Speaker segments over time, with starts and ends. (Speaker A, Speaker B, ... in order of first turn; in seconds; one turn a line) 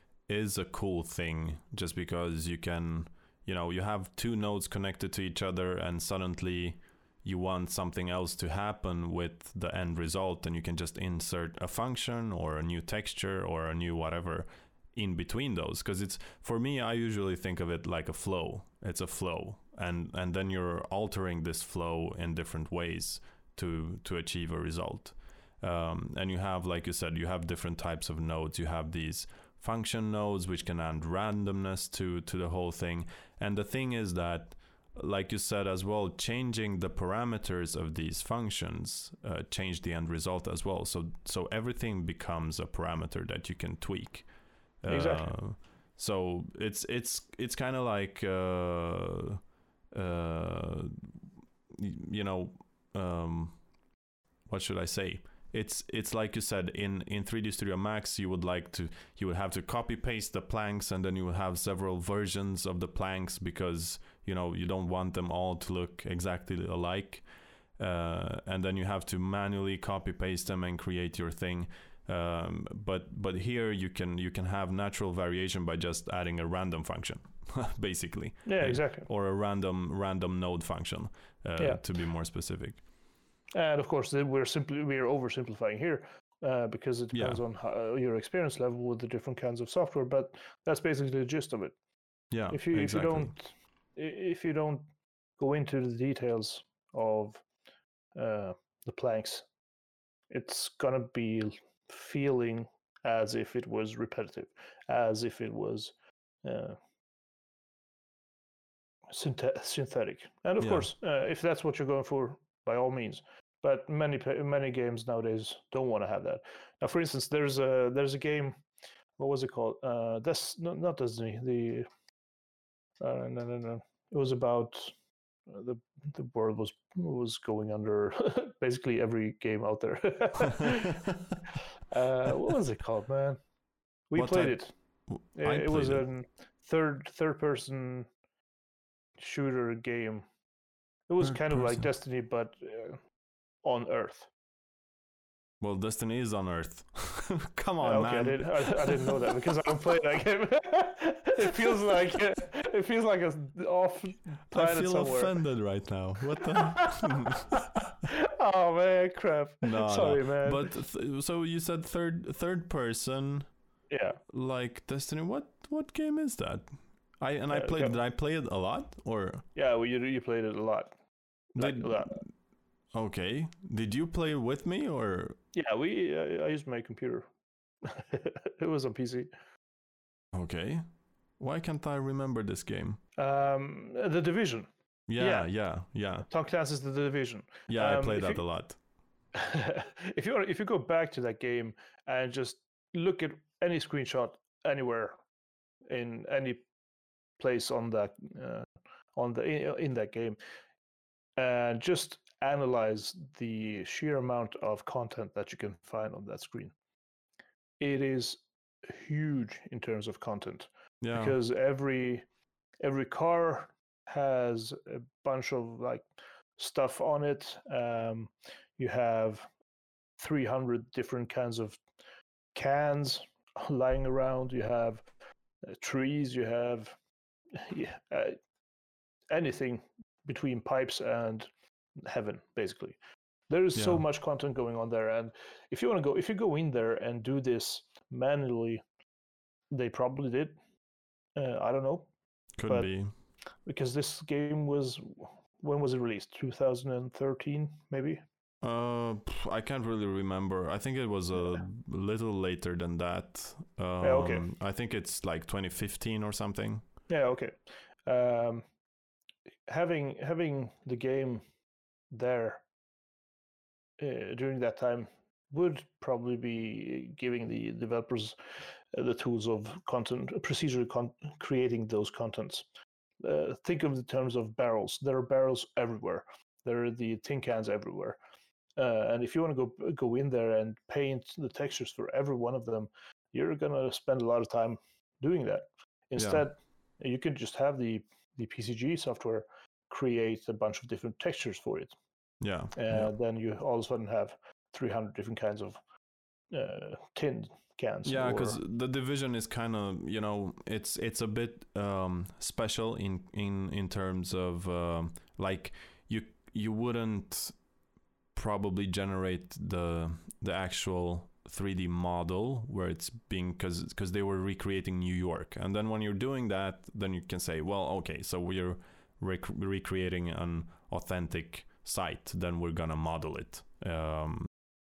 Speaker A: 0.3-44.3
Speaker A: 44.8-49.4
Speaker B: 44.9-45.3
Speaker A: 49.9-51.1
Speaker A: 51.7-53.6
Speaker A: 54.5-67.2
Speaker A: 67.8-82.8
Speaker B: 78.4-79.1
Speaker B: 83.5-91.7
Speaker A: 87.1-87.4
Speaker A: 92.3-93.3
Speaker B: 92.5-94.8
Speaker B: 95.4-97.4
Speaker B: 98.1-99.5
Speaker B: 100.3-106.8
Speaker B: 109.1-118.6
Speaker A: 110.6-110.9
Speaker B: 119.2-121.9
Speaker B: 123.0-124.9
Speaker B: 125.5-131.0
Speaker B: 131.9-133.4
Speaker B: 134.1-134.7
Speaker A: 134.1-134.6
Speaker A: 135.1-136.0
Speaker B: 135.3-138.1
Speaker B: 139.2-140.3
Speaker B: 141.1-143.0
Speaker A: 141.5-141.8
Speaker B: 143.6-144.3
Speaker A: 145.6-149.2
Speaker B: 147.8-155.3
Speaker A: 154.5-157.7
Speaker B: 156.4-160.8
Speaker A: 159.6-163.5
Speaker B: 163.9-164.2
Speaker A: 164.3-166.7
Speaker A: 167.2-169.4
Speaker B: 167.5-167.9
Speaker B: 169.5-170.9
Speaker B: 171.5-172.2
Speaker A: 171.6-172.2
Speaker A: 172.9-175.4
Speaker B: 175.5-177.3
Speaker B: 177.8-179.3
Speaker A: 180.3-180.8
Speaker A: 181.4-183.0
Speaker B: 183.2-185.5
Speaker A: 185.1-186.3
Speaker B: 186.2-188.4
Speaker A: 187.7-188.8
Speaker B: 189.3-195.2
Speaker B: 195.9-196.7
Speaker B: 197.4-200.4
Speaker B: 201.4-206.7
Speaker B: 207.8-212.2
Speaker A: 211.0-211.3
Speaker B: 212.8-216.0
Speaker B: 216.6-219.5
Speaker B: 220.2-221.8
Speaker B: 222.5-225.1
Speaker B: 225.7-226.9
Speaker B: 227.5-228.4
Speaker B: 229.3-231.5
Speaker B: 232.0-232.9
Speaker B: 233.5-238.8
Speaker A: 233.7-234.0
Speaker B: 239.7-240.6
Speaker B: 241.3-242.1
Speaker A: 242.6-243.1
Speaker B: 242.7-242.9
Speaker B: 243.7-248.2
Speaker A: 248.6-256.8
Speaker B: 254.0-254.4
Speaker B: 257.1-258.6
Speaker B: 259.7-261.4
Speaker B: 262.1-262.6
Speaker B: 264.0-268.4
Speaker B: 268.9-272.6
Speaker B: 273.2-278.2
Speaker B: 278.8-291.9
Speaker A: 286.2-286.4
Speaker A: 292.4-293.1
Speaker B: 292.7-295.8
Speaker B: 296.5-298.6
Speaker A: 298.0-307.6
Speaker A: 308.3-324.5